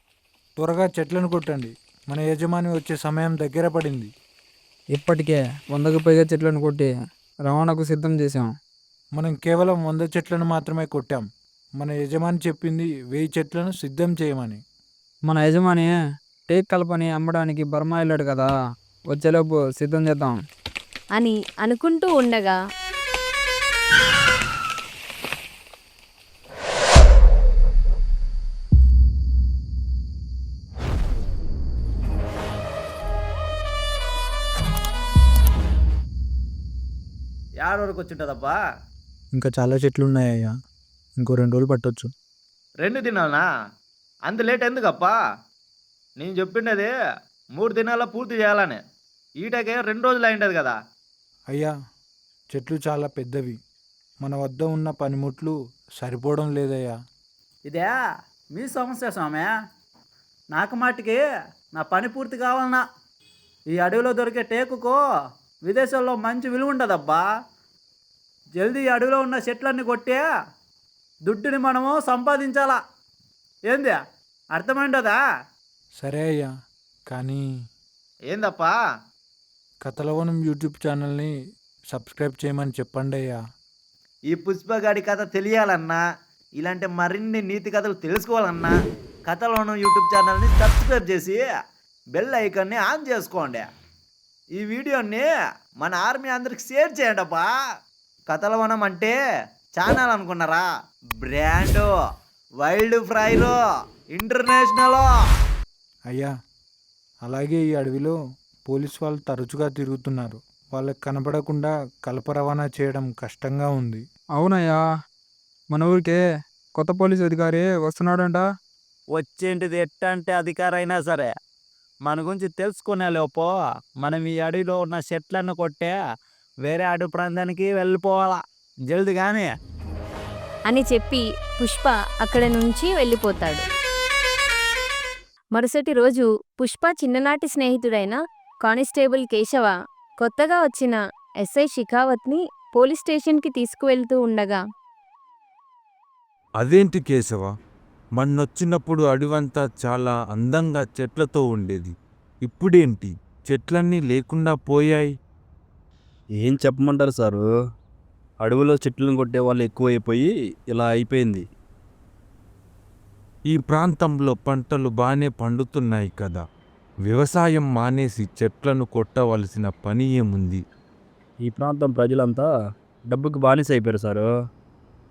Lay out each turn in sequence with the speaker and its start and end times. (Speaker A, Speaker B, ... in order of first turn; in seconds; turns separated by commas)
Speaker A: 0.6-4.1, Speaker B: 4.9-6.9, Speaker B: 7.5-8.5, Speaker A: 9.2-11.2, Speaker A: 11.8-14.6, Speaker B: 15.3-15.9, Speaker B: 16.5-18.5, Speaker B: 19.1-20.4, Speaker C: 21.1-22.6, Speaker D: 37.6-38.6, Speaker A: 39.5-40.4, Speaker A: 41.3-42.0, Speaker D: 42.8-43.5, Speaker D: 44.3-45.1, Speaker D: 46.2-46.9, Speaker D: 47.5-48.8, Speaker D: 49.4-50.8, Speaker A: 52.5-53.6, Speaker A: 54.2-56.9, Speaker E: 57.7-57.9, Speaker E: 58.5-59.5, Speaker E: 60.5-61.2, Speaker E: 61.7-62.8, Speaker E: 63.7-64.9, Speaker E: 65.7-67.2, Speaker E: 68.6-70.3, Speaker E: 71.3-72.8, Speaker E: 73.7-74.0, Speaker E: 74.5-75.2, Speaker A: 76.0-76.5, Speaker A: 77.1-77.4, Speaker D: 78.3-78.7, Speaker A: 79.8-81.3, Speaker A: 81.9-83.4, Speaker D: 84.3-86.0, Speaker D: 86.6-88.7, Speaker D: 89.3-91.5, Speaker D: 92.2-93.6, Speaker D: 94.5-95.3, Speaker D: 95.8-97.5, Speaker D: 98.3-99.2, Speaker D: 99.8-100.7, Speaker D: 101.2-101.9, Speaker D: 102.6-103.5, Speaker D: 104.1-105.0, Speaker A: 107.2-108.2, Speaker A: 108.7-114.0, Speaker B: 114.3-114.8, Speaker B: 115.7-116.2, Speaker B: 116.8-118.4, Speaker E: 119.1-121.3, Speaker E: 122.0-126.0, Speaker E: 126.6-129.5, Speaker C: 130.7-133.6, Speaker C: 135.5-144.6, Speaker F: 146.6-147.5, Speaker F: 148.2-151.9, Speaker F: 152.4-155.1, Speaker G: 156.4-157.4, Speaker G: 158.4-161.4, Speaker F: 163.5-166.4, Speaker F: 167.1-170.6, Speaker G: 171.4-172.5, Speaker G: 173.1-174.3